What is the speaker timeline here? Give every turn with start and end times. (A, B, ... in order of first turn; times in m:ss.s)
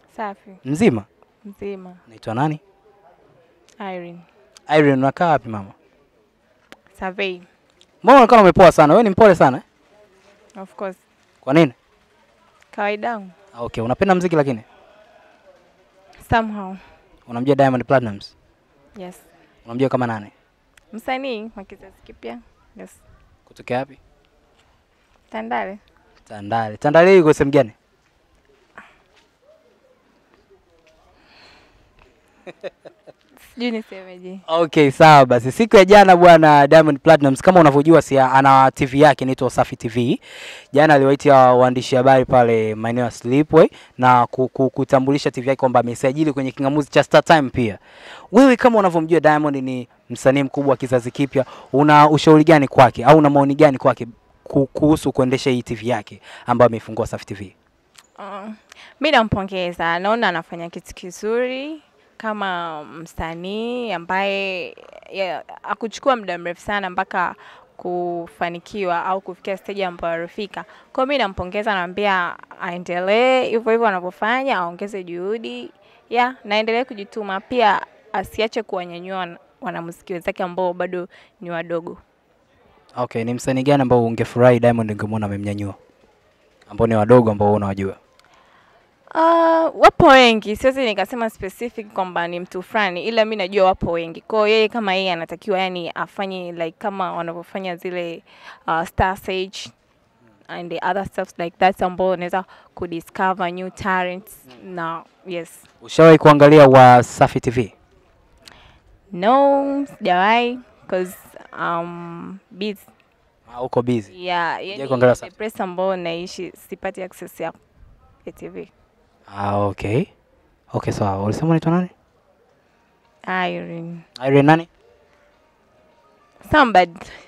0:00.1-0:00.6 A
0:00.6-0:01.1 B
0:01.4-0:02.0 A
0:02.1-0:02.6 B
0:03.8-0:04.3 A
0:04.7-0:05.7 B
0:06.9-0:07.5 A
0:08.0-0:09.6 B
0:10.6-0:11.0 A
0:11.4-0:11.8 B
0:12.7-0:13.3 A
0:13.6-0:14.7 B
0:16.2-0:16.8 A
0:17.3-0:18.3 B
0:19.0-0:19.2 A
0:19.6-0:20.3 B
0:20.9-0:23.0 A
0:23.5-0:24.0 B
0:25.3-0:25.8 A
0:26.3-0:27.8 B
0:33.4-0:34.4 A
0:34.5-0:40.2 B
0:40.7-0:47.8 B
0:48.3-0:57.5 B
0:58.2-1:22.0 A
1:23.0-1:25.8 B
1:26.7-1:28.0 B
1:29.1-1:39.7 A
1:40.5-1:45.7 A
1:45.8-1:47.7 B
1:49.1-1:52.9 A
1:53.5-1:54.1 B
1:54.1-1:57.6 A
1:54.7-1:55.3 B
1:58.2-1:58.7 A
1:59.3-2:00.1 B
2:00.7-2:01.9 B
2:03.3-2:04.0 A
2:04.2-2:04.7 B
2:06.4-2:07.2 A